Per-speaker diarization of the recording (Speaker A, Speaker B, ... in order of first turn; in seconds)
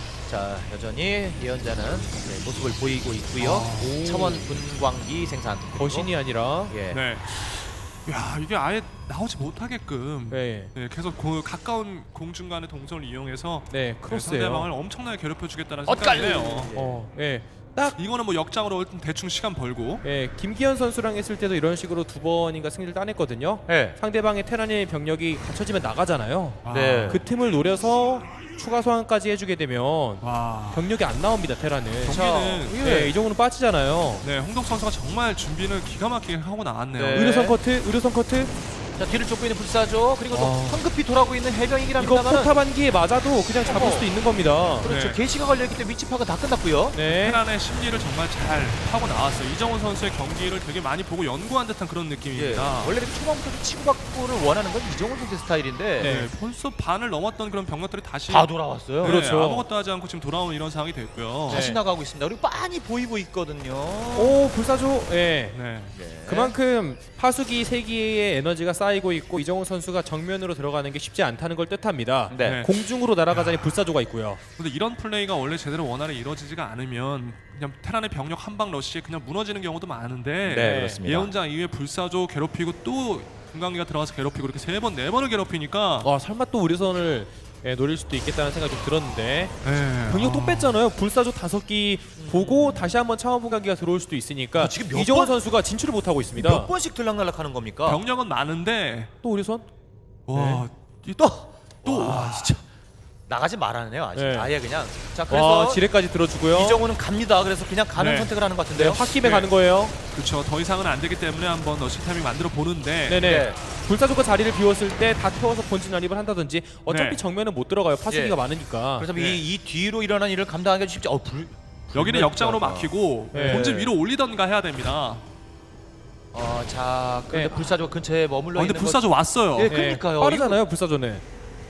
Speaker A: 0.3-6.1, 6.7-7.0, 15.8-17.0, 23.7-24.0, 26.7-27.2, 32.1-33.1, 37.0-37.6, 39.0-42.5, 43.6-44.1, 44.8-47.0, 52.3-56.1, 58.3-59.2, 61.5-64.4, 65.9-66.6, 72.3-72.6, 80.5-81.3, 92.2-92.9, 94.6-95.3, 96.4-98.0, 101.2-102.6, 103.3-105.9, 106.5-109.1, 113.2-113.6, 118.1-118.4, 119.0-123.9, 126.3-130.6
Speaker B: 3.4-4.0, 6.9-16.7, 17.9-20.0, 26.6-27.2, 30.2-30.9, 32.0-32.9, 34.2-37.3, 40.3-40.8, 44.8-45.2, 47.0-53.0, 56.0-61.7, 65.5-65.9, 72.4-72.7, 73.3-73.6, 74.6-86.1, 89.6-90.8, 97.8-99.1, 100.3-102.6, 108.0-108.3, 109.2-109.5, 110.1-113.3, 116.9-117.2, 119.2-119.4, 121.9-125.2, 128.6-129.8
Speaker C: 3.8-4.6, 5.8-6.8, 10.3-10.7, 13.7-14.7, 16.7-18.0, 20.0-34.3, 37.1-38.5, 42.0-44.9, 46.9-47.4, 56.0-56.3, 59.0-59.7, 61.5-61.8, 64.2-65.6, 66.3-74.4, 80.6-81.0, 86.0-96.7, 99.2-99.7, 100.3-100.7, 104.2-104.5, 105.3-106.8, 108.7-110.0, 113.1-119.1, 123.3-123.7, 127.3-127.8, 129.7-131.2